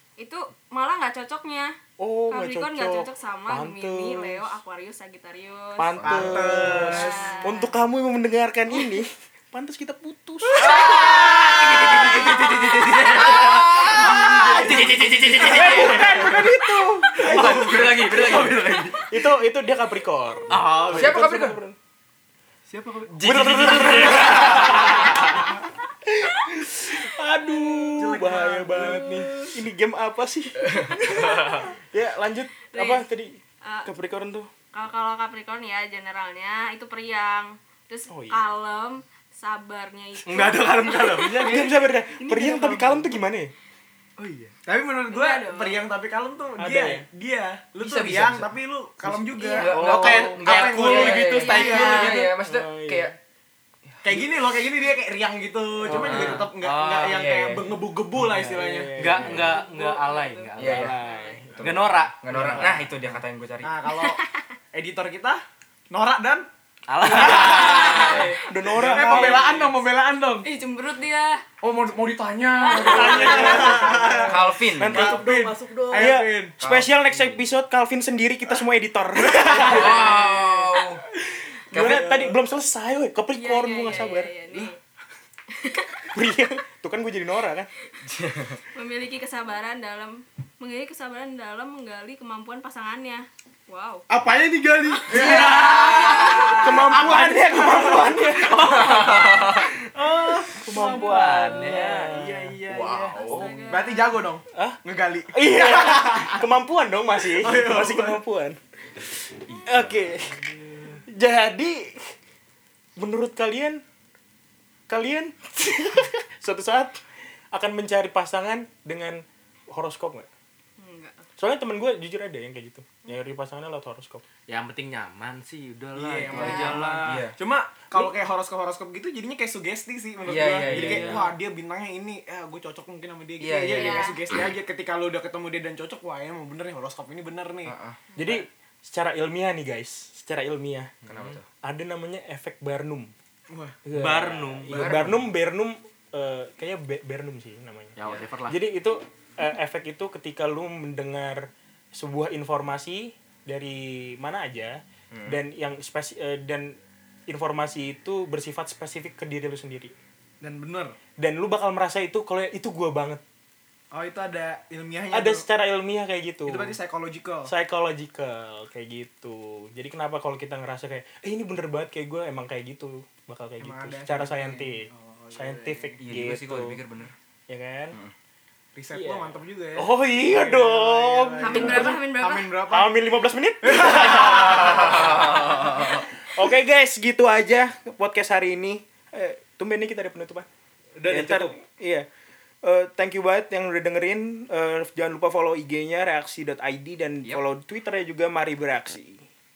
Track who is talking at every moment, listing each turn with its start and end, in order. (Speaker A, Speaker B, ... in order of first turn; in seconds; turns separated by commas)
Speaker A: 0.2-1.7, Speaker B: 2.0-4.5, Speaker A: 2.3-7.8, Speaker B: 5.8-11.1, Speaker C: 6.0-7.4, Speaker D: 6.0-6.5, Speaker A: 10.6-11.3, Speaker E: 10.6-16.6, Speaker D: 11.0-12.1, Speaker B: 11.7-12.2, Speaker D: 12.9-16.2, Speaker B: 15.4-21.8, Speaker D: 17.2-18.9, Speaker E: 17.2-19.1, Speaker C: 17.5-17.8, Speaker E: 20.5-21.2, Speaker D: 20.9-21.6, Speaker E: 22.7-24.6, Speaker D: 23.1-25.4, Speaker B: 23.2-25.2, Speaker B: 26.1-34.5, Speaker A: 27.5-27.9, Speaker C: 28.0-29.3, Speaker A: 28.7-29.2, Speaker A: 32.7-33.1, Speaker A: 33.6-33.9, Speaker A: 34.7-41.5, Speaker B: 38.1-38.4, Speaker E: 40.3-43.1, Speaker B: 41.4-43.5, Speaker E: 44.2-44.5, Speaker C: 44.6-52.2, Speaker A: 45.1-45.8, Speaker B: 46.6-47.1, Speaker D: 47.8-48.5, Speaker B: 49.0-50.3, Speaker A: 49.4-49.7, Speaker D: 49.5-53.2, Speaker E: 49.7-52.2, Speaker A: 50.9-52.3, Speaker B: 51.9-53.2, Speaker D: 53.9-54.3, Speaker C: 54.0-59.3, Speaker E: 55.8-57.2, Speaker B: 55.9-56.5, Speaker D: 57.0-57.7, Speaker E: 58.2-61.0, Speaker B: 58.4-59.7, Speaker A: 59.3-61.4, Speaker D: 60.6-61.0, Speaker B: 60.6-62.7, Speaker E: 61.6-62.7, Speaker D: 61.6-63.7, Speaker C: 63.6-64.2, Speaker A: 63.9-64.4, Speaker C: 64.7-66.5, Speaker E: 66.9-68.4, Speaker C: 67.0-68.1, Speaker A: 67.2-69.3, Speaker D: 67.5-68.3, Speaker B: 68.5-69.5, Speaker C: 68.7-70.5, Speaker E: 69.0-69.6, Speaker A: 70.4-71.4, Speaker C: 71.6-76.6, Speaker A: 72.6-73.8, Speaker B: 72.7-75.3, Speaker E: 73.9-74.3, Speaker D: 74.3-75.2, Speaker E: 74.9-76.2, Speaker B: 75.9-80.3, Speaker D: 76.6-77.4, Speaker C: 79.3-80.0, Speaker D: 79.5-81.0, Speaker A: 79.7-80.6, Speaker D: 81.7-82.2, Speaker B: 81.7-84.4, Speaker C: 81.8-82.4, Speaker A: 83.3-84.8, Speaker A: 85.5-86.0, Speaker B: 86.1-87.7, Speaker D: 88.1-88.6, Speaker A: 88.7-94.1, Speaker E: 94.1-97.0, Speaker C: 94.8-98.7, Speaker B: 95.2-95.5, Speaker A: 96.2-96.6, Speaker B: 96.6-99.7, Speaker E: 97.9-103.5, Speaker D: 98.8-99.6, Speaker B: 100.5-102.6, Speaker D: 102.7-103.5, Speaker A: 103.1-104.3, Speaker C: 103.7-106.4, Speaker B: 104.5-108.6, Speaker C: 107.3-108.2, Speaker D: 109.5-109.8, Speaker B: 109.7-110.5, Speaker B: 111.1-112.2, Speaker B: 113.0-113.8, Speaker B: 114.9-117.0, Speaker B: 117.5-120.3, Speaker A: 120.8-121.3, Speaker B: 121.4-124.2, Speaker E: 124.5-127.2, Speaker C: 125.9-137.8, Speaker D: 126.3-127.4, Speaker A: 126.3-126.9, Speaker D: 130.3-131.3, Speaker E: 130.7-131.3, Speaker B: 130.7-131.2, Speaker D: 133.4-134.1, Speaker A: 133.7-134.2, Speaker D: 137.7-138.0, Speaker B: 138.2-140.9, Speaker D: 141.1-141.4, Speaker B: 141.6-143.1, Speaker C: 143.5-143.9, Speaker B: 143.9-147.9, Speaker E: 143.9-144.9, Speaker C: 144.7-145.1, Speaker D: 144.7-145.2, Speaker E: 148.0-148.7, Speaker B: 148.5-159.9, Speaker D: 155.1-155.4, Speaker C: 160.4-161.0, Speaker B: 161.2-163.2, Speaker C: 163.9-165.4, Speaker B: 165.1-166.8, Speaker C: 166.5-167.5, Speaker B: 167.4-176.8, Speaker C: 173.6-176.0, Speaker D: 176.0-177.1, Speaker B: 177.5-178.0, Speaker C: 178.8-183.0, Speaker B: 178.9-182.0, Speaker A: 181.4-182.5, Speaker B: 182.7-190.5, Speaker C: 183.6-185.6, Speaker D: 184.2-185.9, Speaker E: 191.0-191.6, Speaker B: 191.1-192.1, Speaker B: 192.6-199.2